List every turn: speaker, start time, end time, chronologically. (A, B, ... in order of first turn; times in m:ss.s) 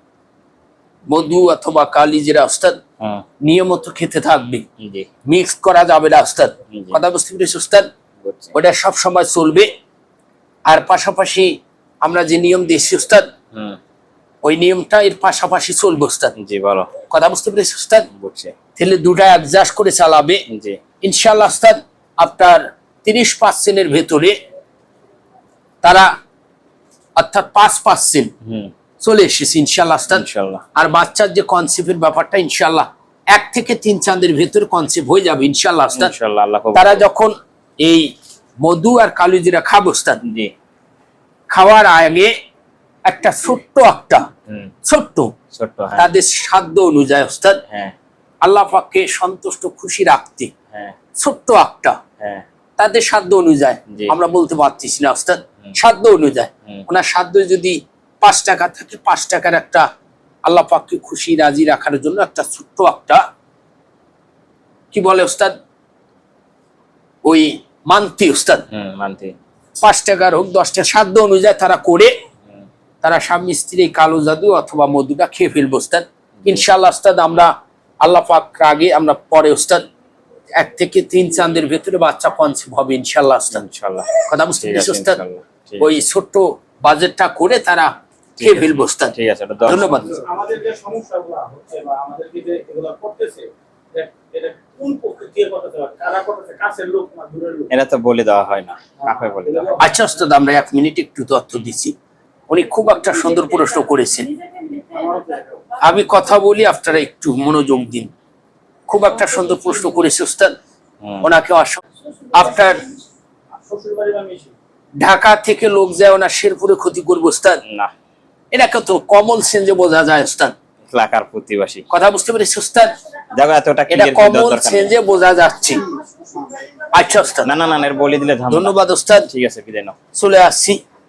0:01.1-0:02.8 A
0:03.4-0:04.6 A
0:04.8-0:05.1 B
0:05.2-0:07.9 A
0:06.7-0:07.0 B
0:08.2-0:08.5 B
0:08.5-0:09.7 A
0:10.7-0:13.3 A
0:13.5-0:13.8 B
0:14.4-0:16.3 A
0:16.4-0:16.9 B
0:17.1-0:18.1 A
0:18.1-0:18.5 B
0:18.7-0:20.4 A
0:20.5-0:20.8 B
0:21.0-0:24.4 A
0:25.8-0:26.1 A
0:27.2-0:28.3 A
0:28.4-0:28.7 B
0:29.0-0:36.1 A
0:30.1-0:30.6 B
0:35.9-0:37.0 B
0:36.7-0:40.2 A
0:40.2-0:40.5 B
0:41.5-0:42.3 A
0:43.0-0:44.3 A
0:44.8-0:45.3 A
0:45.5-0:46.1 B
0:46.0-0:47.6 A
0:47.7-0:47.9 B
0:48.4-0:50.5 A
0:51.2-0:52.0 A
0:52.2-0:52.4 B
0:52.8-0:59.9 A
1:00.4-1:03.2 A
1:04.9-1:05.6 A
1:07.2-1:08.6 A
1:08.7-1:09.4 B
1:09.8-1:12.1 A
1:13.0-1:19.8 A
1:20.5-1:23.6 A
1:23.5-1:25.9 B
1:24.2-1:25.2 A
1:25.8-1:30.2 A
1:28.4-1:30.1 B
1:30.1-1:37.7 C
1:37.7-1:39.8 B
1:39.0-1:39.8 C
1:39.8-1:41.9 A
1:42.5-1:44.3 A
1:44.9-1:45.6 C
1:45.8-1:48.1 A
1:48.9-1:50.5 A
1:51.2-1:52.8 A
1:53.6-1:54.5 C
1:55.0-1:57.6 A
1:57.6-1:57.9 B
1:58.5-2:00.5 A
2:00.9-2:01.9 B
2:01.9-2:03.0 A
2:03.3-2:05.0 B
2:03.9-2:05.9 A
2:06.9-2:07.5 A
2:07.4-2:10.0 B
2:08.5-2:09.3 A
2:10.1-2:10.8 A